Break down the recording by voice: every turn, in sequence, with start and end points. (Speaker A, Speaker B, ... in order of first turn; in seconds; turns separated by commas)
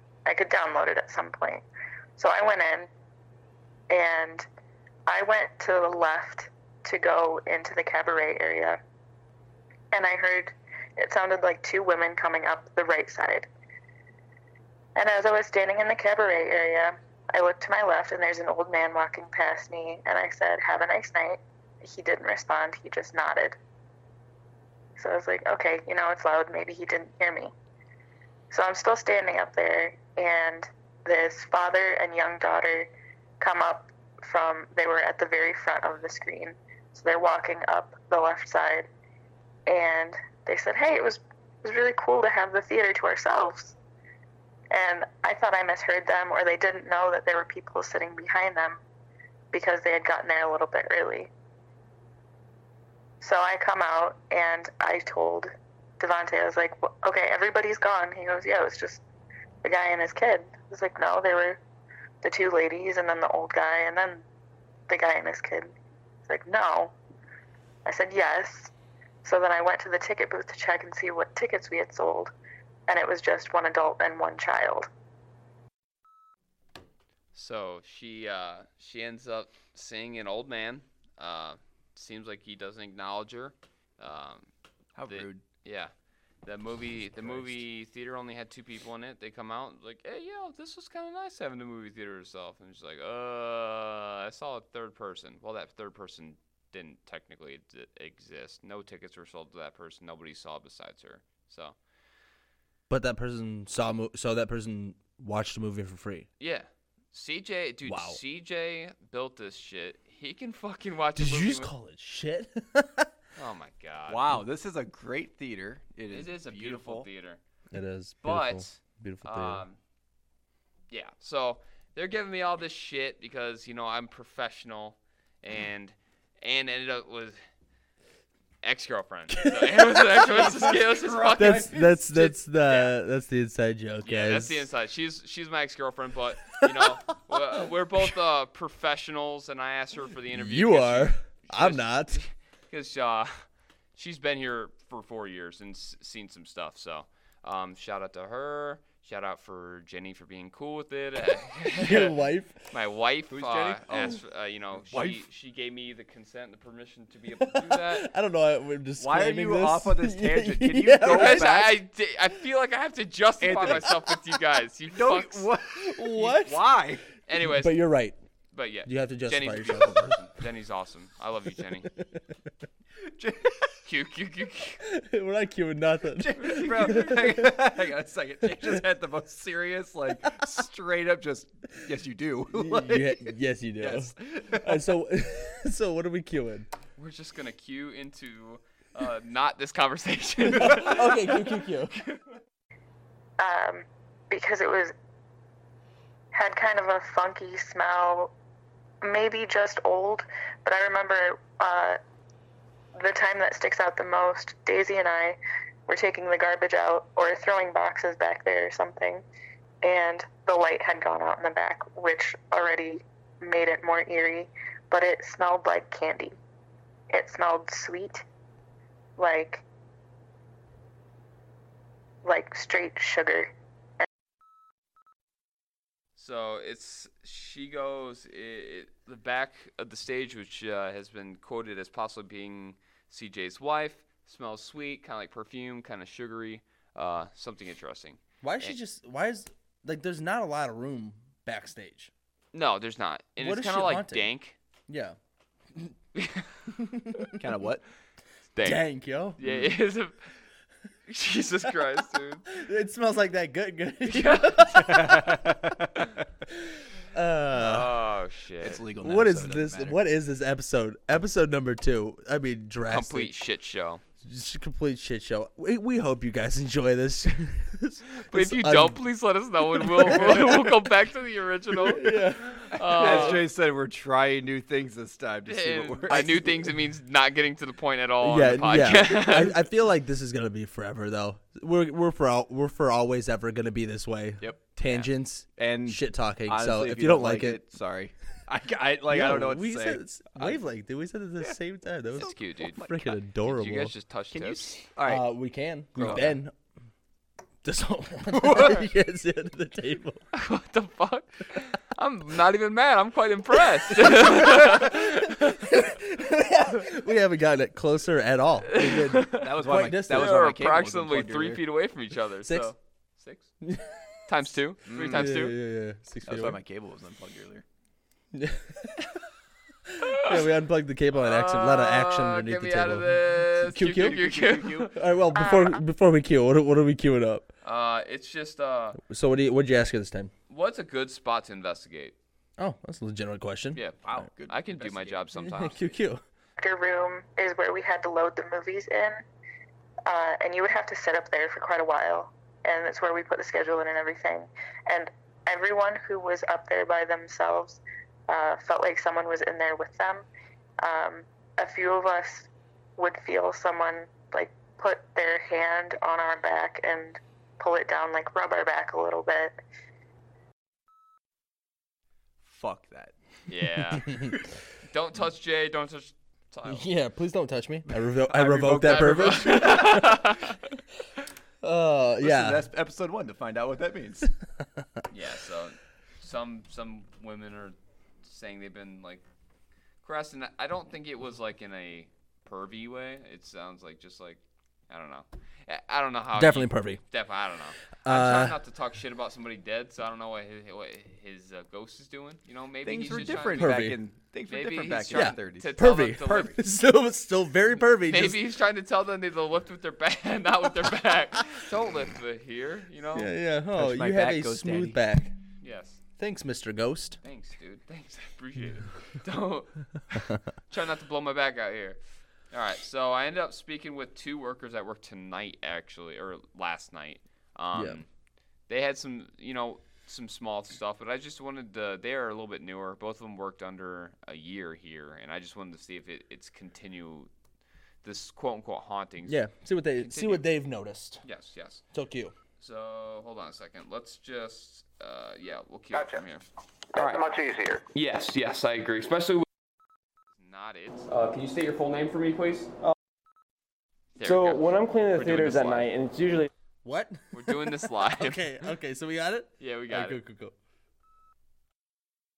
Speaker A: 0.3-1.6, Speaker A: 2.2-2.9, Speaker A: 3.9-4.5, Speaker A: 5.1-8.8, Speaker A: 9.9-13.5, Speaker A: 14.9-23.6, Speaker A: 25.0-27.5, Speaker A: 28.5-38.9, Speaker A: 39.7-43.8, Speaker A: 44.7-48.8, Speaker A: 49.5-51.3, Speaker A: 53.2-59.0, Speaker A: 59.6-61.6, Speaker A: 62.2-64.2, Speaker A: 64.9-65.7, Speaker A: 66.3-66.9, Speaker A: 67.8-68.7, Speaker A: 69.2-72.3, Speaker A: 72.9-74.9, Speaker B: 77.3-84.5, Speaker C: 85.0-85.4, Speaker B: 85.1-85.9, Speaker B: 86.4-101.8, Speaker C: 87.2-87.6, Speaker D: 102.9-106.3, Speaker B: 106.4-111.7, Speaker D: 107.8-108.2, Speaker D: 111.2-113.1, Speaker B: 113.4-114.2, Speaker C: 114.1-117.1, Speaker B: 116.1-117.4, Speaker D: 117.7-119.6, Speaker B: 118.2-119.8, Speaker B: 120.9-127.4, Speaker B: 128.6-132.9, Speaker D: 129.3-130.5, Speaker C: 130.3-132.0, Speaker D: 131.4-134.7, Speaker B: 134.1-152.2, Speaker D: 136.6-136.9, Speaker D: 140.3-142.2, Speaker D: 151.8-152.6, Speaker B: 152.7-158.1, Speaker C: 153.3-154.2, Speaker C: 154.8-155.2, Speaker D: 157.4-161.5, Speaker C: 159.0-161.8, Speaker B: 161.1-165.5, Speaker C: 163.4-164.1, Speaker C: 164.9-167.1, Speaker D: 165.8-166.7, Speaker B: 167.3-167.8, Speaker D: 167.4-168.2, Speaker B: 168.5-171.9, Speaker D: 168.8-170.2, Speaker C: 173.1-173.7, Speaker B: 173.8-174.8, Speaker D: 174.8-177.6, Speaker C: 176.2-184.9, Speaker D: 182.5-186.7, Speaker B: 187.0-191.1, Speaker D: 190.5-192.0, Speaker C: 190.5-191.0, Speaker A: 193.4-194.9, Speaker A: 196.3-198.3, Speaker A: 199.0-202.0, Speaker A: 202.9-209.2, Speaker A: 209.8-216.4, Speaker A: 217.1-218.2, Speaker A: 219.2-219.6, Speaker A: 222.2-224.1, Speaker B: 226.2-238.8, Speaker D: 238.4-242.1, Speaker B: 242.5-244.6, Speaker D: 243.4-244.3, Speaker D: 244.9-245.2, Speaker B: 246.2-246.4, Speaker D: 246.7-247.4, Speaker C: 247.4-247.8, Speaker B: 248.6-248.9, Speaker D: 248.6-249.4, Speaker B: 249.4-250.3, Speaker C: 249.4-249.7, Speaker B: 251.1-252.5, Speaker D: 252.5-255.3, Speaker B: 254.1-255.0, Speaker C: 254.7-256.2, Speaker D: 256.7-258.0, Speaker B: 257.5-258.8, Speaker C: 258.6-260.0, Speaker D: 259.0-263.3, Speaker B: 262.9-264.0, Speaker D: 264.2-269.0, Speaker B: 268.2-273.4, Speaker D: 269.8-270.5, Speaker D: 271.9-273.4, Speaker C: 272.0-272.3, Speaker C: 272.9-276.7, Speaker B: 275.5-279.6, Speaker D: 278.2-287.6, Speaker B: 284.8-285.1, Speaker C: 285.6-290.6, Speaker D: 289.1-293.9, Speaker C: 292.1-293.1, Speaker B: 292.1-294.8, Speaker C: 294.3-295.3, Speaker D: 295.1-296.6, Speaker C: 296.0-296.4, Speaker D: 297.6-300.2, Speaker C: 298.4-298.8, Speaker B: 300.3-305.8, Speaker D: 304.1-310.5, Speaker B: 308.7-309.5, Speaker C: 309.3-311.6, Speaker B: 310.1-313.5, Speaker D: 312.4-312.7, Speaker D: 313.6-314.2, Speaker B: 314.3-315.6, Speaker C: 314.9-315.3, Speaker D: 315.0-316.6, Speaker C: 316.2-317.6, Speaker D: 318.3-319.0, Speaker D: 319.9-324.2, Speaker B: 320.0-320.5, Speaker B: 321.1-325.0, Speaker C: 323.8-324.9, Speaker D: 324.9-327.5, Speaker A: 325.4-325.8, Speaker B: 327.6-329.0, Speaker D: 329.1-330.3, Speaker B: 330.5-332.2, Speaker D: 332.6-333.8, Speaker C: 333.8-335.3, Speaker B: 334.5-335.9, Speaker D: 335.4-336.2, Speaker A: 336.6-339.2, Speaker A: 340.1-350.3, Speaker A: 350.8-359.6, Speaker C: 362.4-363.1, Speaker B: 363.5-366.9, Speaker D: 366.7-370.1, Speaker C: 367.9-370.1, Speaker B: 368.8-370.6, Speaker D: 371.6-372.7, Speaker C: 372.2-374.3, Speaker B: 375.1-379.2, Speaker B: 380.0-393.8, Speaker D: 386.3-387.0, Speaker D: 388.0-388.6, Speaker C: 392.8-396.6, Speaker D: 393.5-394.0, Speaker B: 394.5-396.6, Speaker D: 395.1-398.4, Speaker B: 398.0-403.3, Speaker D: 403.1-405.4, Speaker C: 403.8-405.0, Speaker B: 405.6-406.0, Speaker D: 406.2-407.2, Speaker B: 407.2-412.0, Speaker B: 412.5-418.1, Speaker D: 417.7-418.0, Speaker B: 418.7-427.3, Speaker B: 428.0-429.4, Speaker D: 429.2-431.2, Speaker B: 430.0-430.4, Speaker B: 431.2-431.8, Speaker D: 431.9-432.3, Speaker B: 432.6-436.5, Speaker E: 437.9-439.4, Speaker B: 440.4-441.1, Speaker E: 441.1-442.7, Speaker B: 444.2-445.9, Speaker F: 444.2-446.5, Speaker D: 446.8-450.5, Speaker B: 447.3-448.5, Speaker B: 449.6-450.2